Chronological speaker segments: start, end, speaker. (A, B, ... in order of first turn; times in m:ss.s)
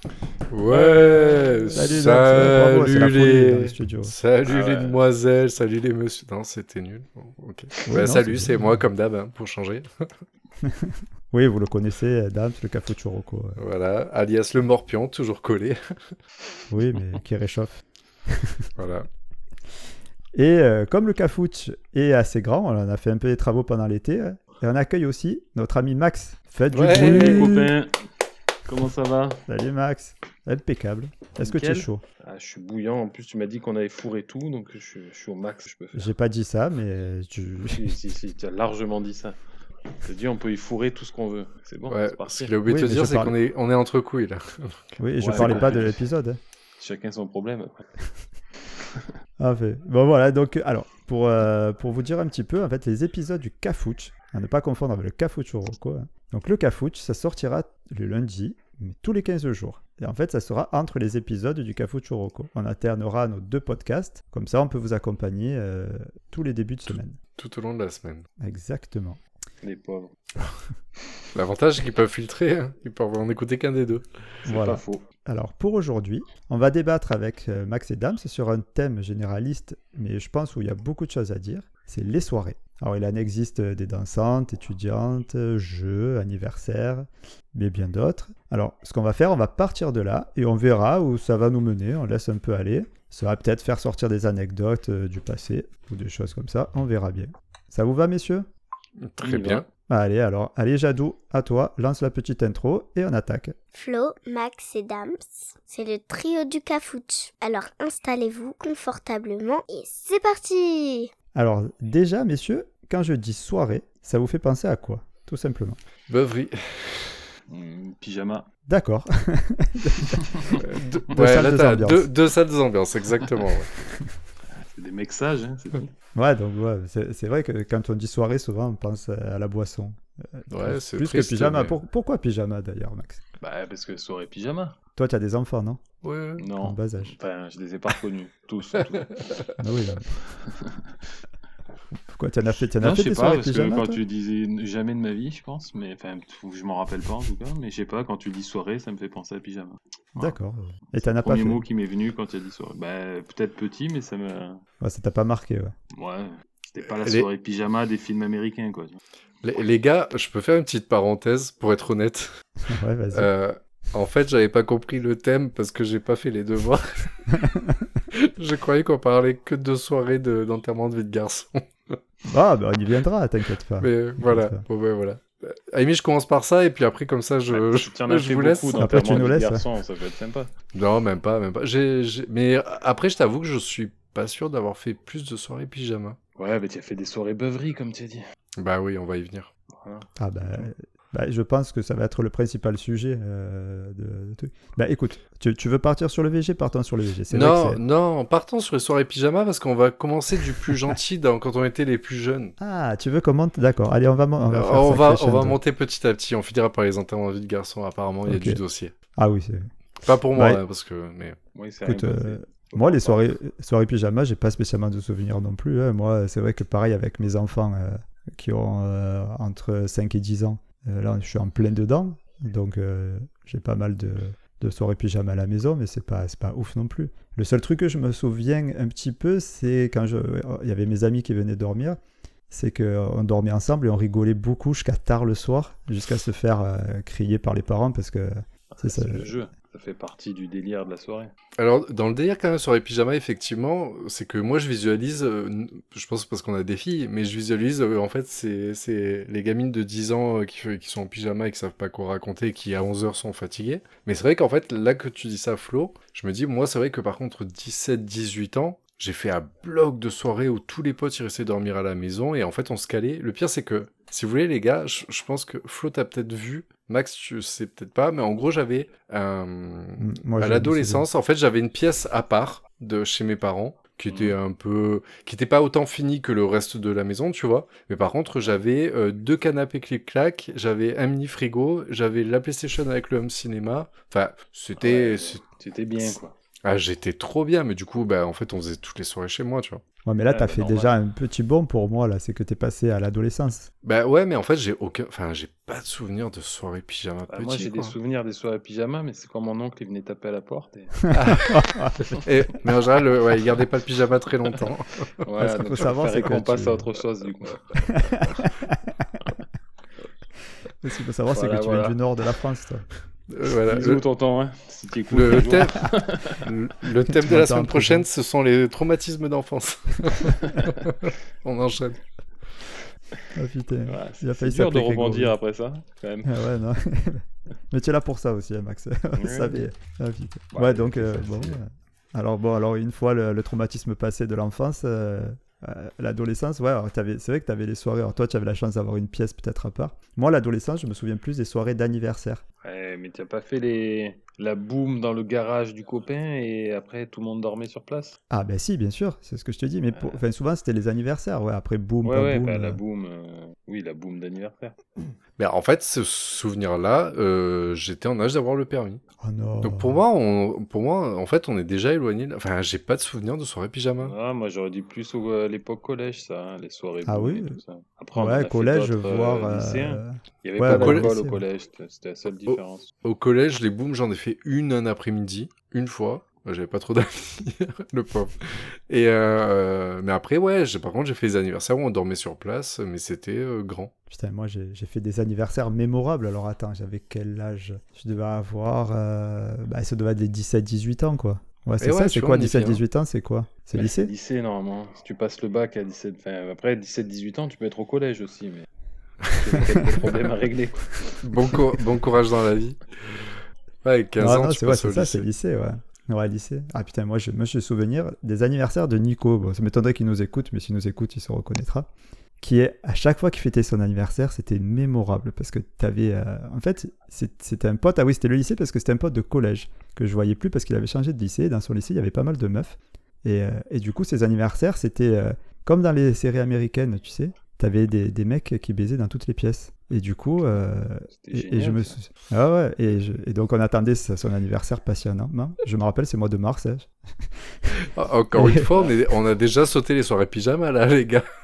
0:00.5-0:10.1 A
0:00.7-0:01.8 B
0:01.7-0:04.1 C
0:04.4-0:05.0 B
0:07.9-0:08.7 C
0:10.6-0:13.6 C
0:13.6-0:16.2 A
0:16.7-0:18.7 C
0:18.8-0:19.1 A
0:20.4-0:27.7 C
0:26.7-0:27.7 A
0:26.8-0:27.9 B
0:28.7-0:29.4 B
0:29.5-0:32.0 C
0:31.4-0:36.1 B
0:36.0-0:37.9 C
0:37.6-0:39.4 B
0:40.0-0:42.6 B
0:41.9-0:45.6 A
0:42.7-0:43.4 C
0:45.0-0:46.4 C
0:45.2-0:46.1 B
0:46.8-0:47.8 B
0:49.4-1:07.2 C
1:07.4-1:08.2 A
1:08.4-1:09.2 C
1:09.6-1:10.1 B
1:11.4-1:14.0 A
1:14.5-1:15.0 B
1:14.5-1:38.5 C
1:39.0-1:39.7 A
1:39.2-1:39.6 B
1:39.9-1:43.6 C
1:43.7-1:51.1 D
1:51.4-1:55.8 C
1:56.1-1:57.3 A
1:57.5-1:58.5 B
1:58.7-2:00.3 C
2:00.6-2:03.7 A
2:01.1-2:02.1 C
2:04.7-2:05.9 B
2:06.2-2:13.2 C
2:10.5-2:11.8 A
2:13.4-2:14.8 B
2:15.0-2:15.8 C
2:16.0-2:16.5 A
2:16.4-2:19.2 B
2:16.6-2:17.2 C
2:19.6-2:20.1 C
2:20.4-2:20.8 B
2:22.1-2:24.0 C
2:22.8-2:30.4 B
2:30.2-2:31.6 C
2:30.9-2:34.6 B
2:34.8-2:35.8 C
2:35.9-2:39.0 B
2:39.4-2:42.4 A
2:42.7-2:43.3 C
2:43.1-2:47.2 A
2:47.4-2:47.8 C
2:48.1-2:52.0 A
2:52.3-2:54.6 C
2:53.8-2:58.9 A
2:57.5-3:00.5 B
2:58.8-2:59.6 C
3:00.7-3:06.2 A
3:06.4-3:08.2 B
3:08.6-3:09.5 A
3:09.7-3:10.7 B
3:10.2-3:17.8 C
3:17.3-3:22.6 A
3:22.6-3:25.6 C
3:24.5-3:28.9 A
3:28.3-3:28.6 C
3:29.2-3:29.7 C
3:30.0-3:31.4 A
3:30.3-3:30.6 C
3:31.5-3:33.3 B
3:31.8-3:52.0 C
3:52.5-3:59.3 C
3:58.7-4:01.3 B
4:01.6-4:45.4 A
4:30.0-4:31.0 C
4:44.8-4:46.3 B
4:46.6-4:49.8 A
4:50.1-4:53.7 C
4:50.3-4:50.9 B
4:53.8-4:58.0 A
4:57.3-5:01.1 B
5:01.1-5:02.1 C
5:01.1-5:05.1 A
5:05.2-5:08.4 B
5:05.4-5:06.9 C
5:07.9-5:09.1 C
5:10.8-5:12.9 C
5:11.3-5:12.0 B
5:13.3-5:14.0 A
5:13.7-5:16.5 B
5:15.1-5:22.0 A
5:17.1-5:18.0 C
5:23.4-5:25.4 C
5:23.9-5:26.4 B
5:26.2-5:42.4 C
5:29.2-5:29.6 B
5:30.5-5:31.6 B
5:42.6-5:48.2 B
5:48.3-5:52.8 C
5:50.0-5:50.2 B
5:52.0-5:54.8 B
5:55.4-5:59.0 A
5:59.2-6:00.0 C
5:59.6-6:04.2 A
6:04.0-6:12.9 B
6:07.1-6:07.6 C
6:08.2-6:11.4 C
6:10.7-6:11.1 A
6:12.5-6:23.9 A
6:24.1-6:34.1 C
6:31.8-6:32.8 A
6:33.7-6:38.7 B
6:39.3-6:41.3 B
6:41.2-6:45.3 A
6:44.2-6:51.9 C
6:52.4-7:16.9 C
7:11.2-7:12.0 B
7:17.8-7:21.3 A
7:18.3-7:18.8 C